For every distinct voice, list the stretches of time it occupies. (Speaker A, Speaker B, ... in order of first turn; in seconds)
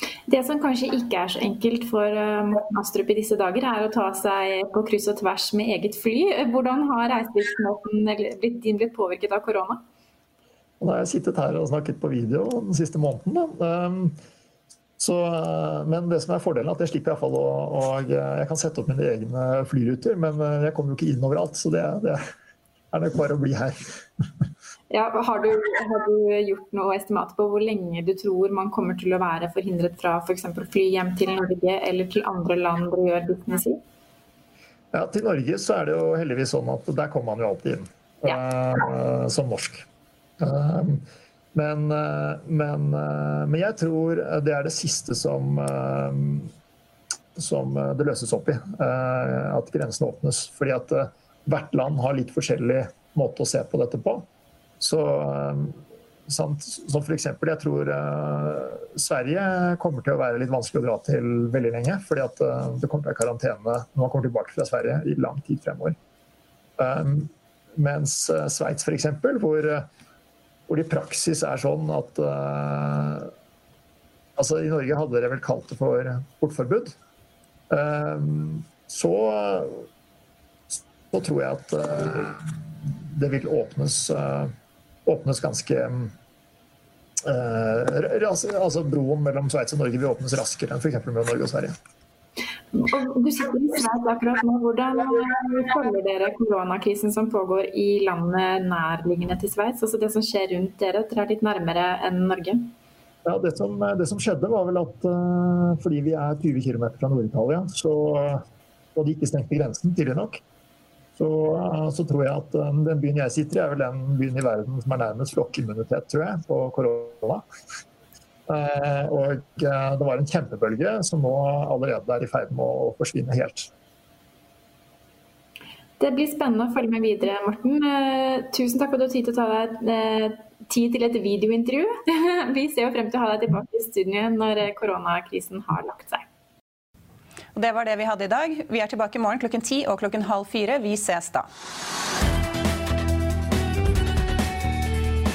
Speaker A: 0.3-9.8, 24.9-33.8, 92.7-102.7, 126.0-136.2
Speaker B: 10.8-14.2, 15.0-22.2, 22.9-24.0, 34.9-39.9, 40.4-46.5, 47.4-54.3, 54.8-66.0, 66.8-69.9, 70.7-73.3, 74.4-77.0, 77.7-79.9, 81.1-84.5, 85.1-86.1, 87.2-91.7, 103.3-108.4, 109.0-110.4, 111.2-117.5, 118.5-123.7
Speaker C: 137.6-141.5